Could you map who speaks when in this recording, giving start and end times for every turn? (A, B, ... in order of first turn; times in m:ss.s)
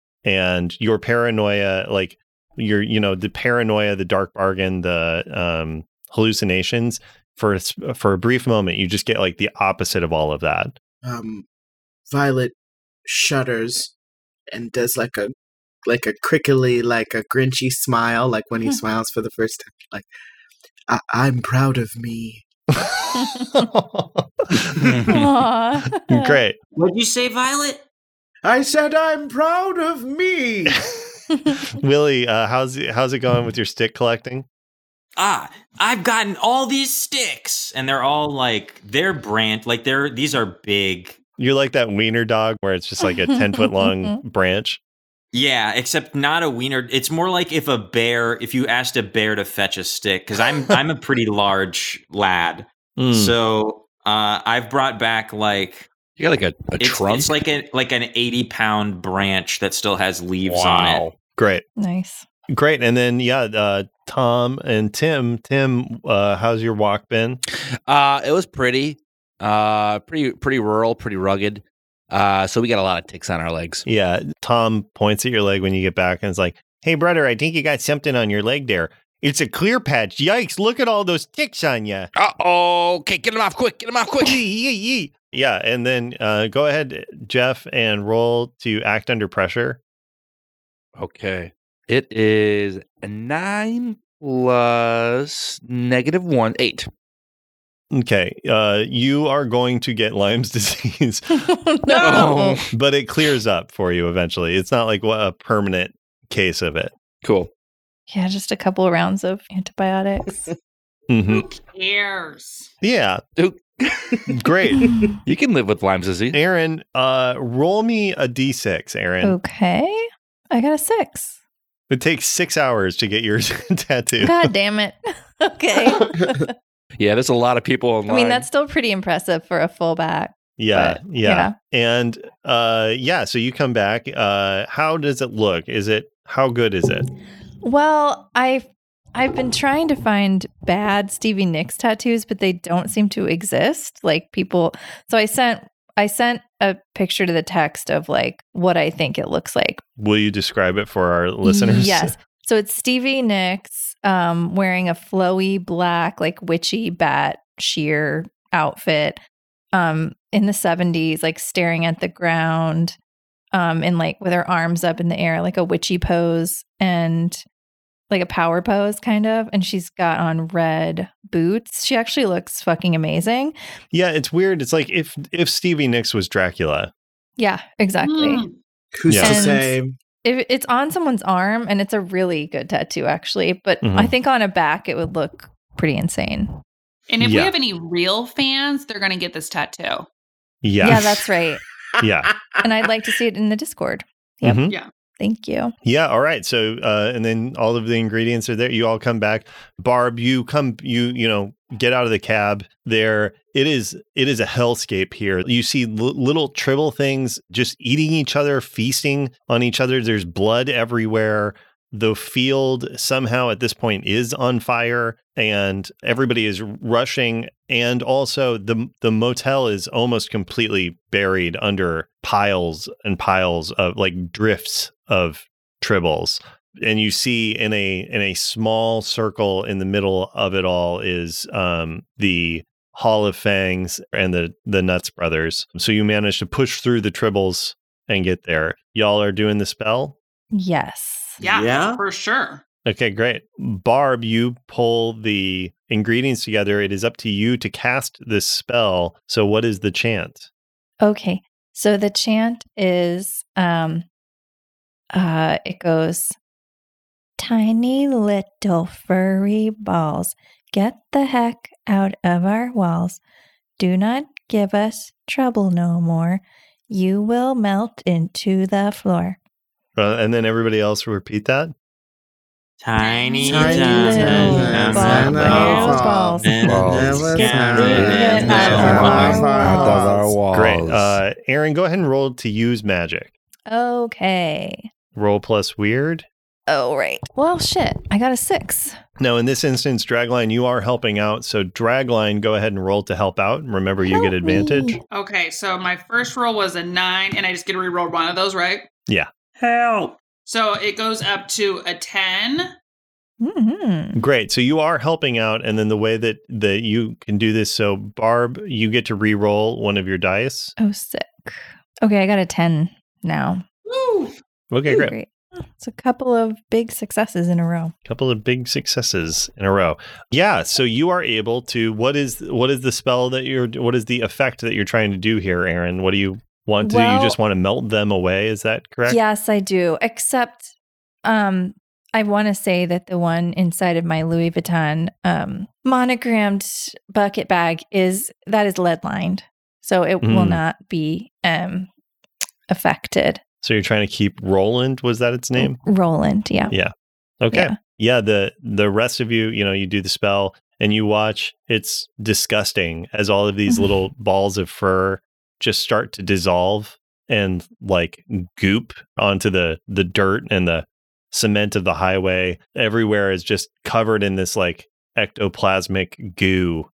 0:00.2-0:10.8 A
0:11.0-0:11.4 B
0:12.1-0:12.5 B
0:13.0-0:13.9 B
0:14.5-0:15.3 B
0:15.8-0:20.1 B
0:20.9-0:22.4 B
0:23.2-0:23.5 C
0:23.5-0:25.3 A
0:25.1-0:26.4 C
0:25.9-0:26.6 A
0:26.8-0:27.8 D
0:28.4-0:30.8 B
0:31.8-0:34.5 A
0:35.2-0:41.2 D
0:41.4-0:44.8 A
0:43.3-0:44.2 C
0:45.3-0:55.9 D
0:53.0-0:53.3 A
0:56.2-0:57.4 E
0:56.8-1:01.0 D
1:00.4-1:01.2 E
1:01.4-1:01.6 A
1:01.8-1:02.2 C
1:02.5-1:07.4 A
1:07.9-1:13.8 E
1:13.8-1:22.1 A
1:22.2-1:24.4 E
1:24.2-1:29.8 A
1:31.0-1:36.9 E
1:37.9-1:41.5 A
1:41.3-1:42.6 C
1:41.9-1:42.4 F
1:42.0-1:42.7 E
1:42.7-1:46.9 A
1:47.2-1:47.5 E
1:48.1-1:50.4 C
1:51.1-1:51.4 A
1:51.3-1:52.7 F
1:52.8-1:53.2 A
1:53.4-1:54.3 E
1:54.3-1:54.9 A
1:54.8-1:55.1 C
1:55.2-1:56.4 E
1:56.3-1:59.4 A
1:59.2-2:01.4 C
2:01.9-2:04.5 A
2:04.2-2:06.4 C
2:05.9-2:06.3 B
2:07.0-2:08.4 E
2:08.1-2:11.5 C
2:10.6-2:17.1 A
2:17.6-2:29.8 C
2:30.0-2:32.1 A
2:31.4-2:39.2 C
2:39.7-2:43.0 C
2:43.5-2:47.4 C
2:48.1-2:53.5 C
2:53.9-2:56.9 A
2:57.4-2:58.4 C
2:58.0-2:58.5 F
2:58.9-2:59.9 B
2:59.1-2:59.6 A
2:59.2-3:06.5 C
3:03.8-3:04.1 A
3:07.1-3:10.1 F
3:07.2-3:07.5 A
3:10.6-3:11.2 A
3:10.8-3:11.6 C
3:12.0-3:12.6 B
3:12.0-3:12.3 A
3:12.6-3:14.6 C
3:14.4-3:14.8 A
3:15.2-3:15.7 C
3:15.8-4:00.2 A
4:00.5-4:01.4 C
4:01.4-4:02.0 D
4:01.4-4:02.6 F
4:02.8-4:10.5 A
4:11.0-4:14.0 C
4:15.1-4:16.4 C
4:17.4-4:23.2 C
4:23.8-4:29.4 C
4:30.0-4:31.7 A
4:32.8-4:39.4 D
4:33.0-4:33.7 F
4:33.4-4:40.4 B
4:33.5-4:36.5 C
4:36.6-4:41.2 E
4:38.1-4:40.0 C
4:40.5-4:43.3 A
4:43.7-4:44.9 C
4:45.1-4:46.2 A
4:46.7-4:49.0 C
4:49.2-4:55.0 A
4:54.1-4:55.0 C
4:55.1-4:58.9 F
4:59.6-5:00.2 D
5:00.4-5:02.7 F
5:03.4-5:04.2 C
5:04.2-5:10.7 A
5:10.8-5:13.6 C
5:13.8-5:14.3 F
5:14.7-5:15.1 A
5:14.9-5:17.9 C
5:18.0-5:29.2 A
5:26.8-5:27.4 C
5:29.1-5:30.7 C
5:31.2-5:41.9 C
5:40.2-5:40.6 A
5:42.7-5:43.4 C
5:43.6-5:45.8 A
5:45.6-5:46.7 C
5:46.7-6:06.9 A